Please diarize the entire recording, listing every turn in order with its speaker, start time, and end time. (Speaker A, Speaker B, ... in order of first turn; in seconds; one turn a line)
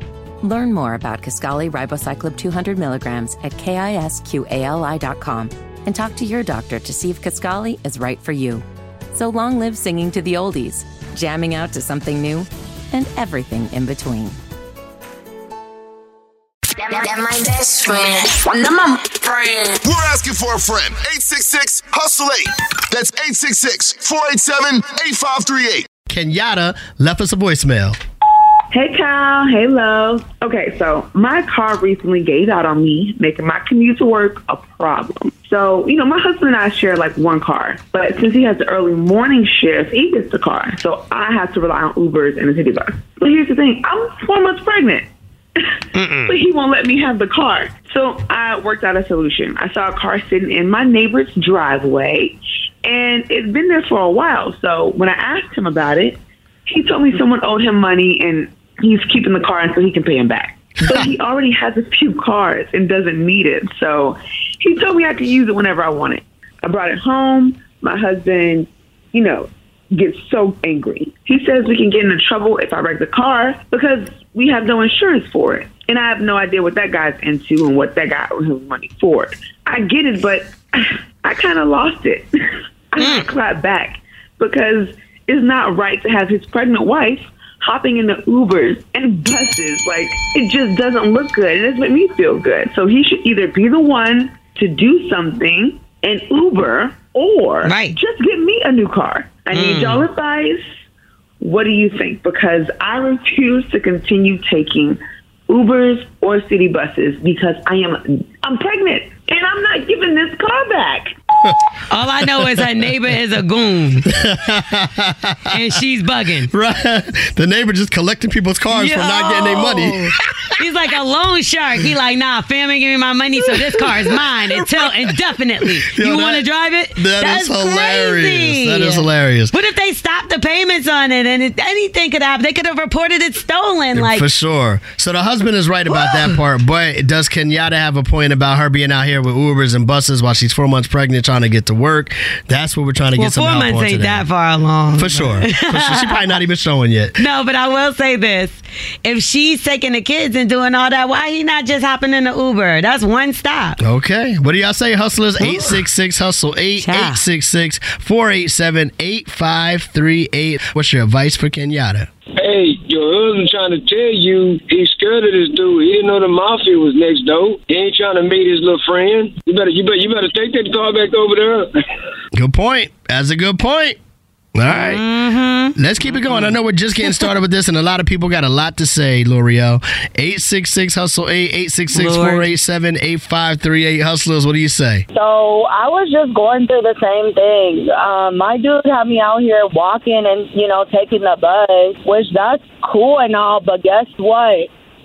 Speaker A: 0.4-14.4
Speaker B: 16.8-19.8
Speaker C: 19.8-25.9
Speaker D: 26.1-28.0
Speaker E: 28.7-45.1
Speaker E: 45.6-82.3
Speaker F: 46.0-46.3
Speaker E: 82.9-100.6
Speaker F: 83.0-83.2
Speaker F: 97.6-98.0
Speaker F: 99.5-100.0
Speaker E: 101.4-105.0
Speaker E: 105.5-111.1
Speaker F: 111.9-114.1
Speaker D: 114.1-115.6
Speaker F: 115.5-116.5
Speaker D: 116.5-120.1
Speaker F: 118.7-134.2
Speaker D: 123.5-129.5
Speaker D: 133.9-144.2
Speaker F: 135.9-136.3
Speaker F: 143.2-146.2
Speaker D: 144.9-147.2
Speaker F: 147.2-153.8
Speaker D: 153.8-162.1
Speaker F: 155.4-155.8
Speaker F: 156.8-157.2
Speaker G: 162.3-171.7
Speaker D: 172.3-174.0
Speaker D: 174.5-175.1
Speaker F: 174.7-176.6
Speaker D: 175.7-185.0
Speaker F: 181.9-182.5
Speaker H: 185.1-194.7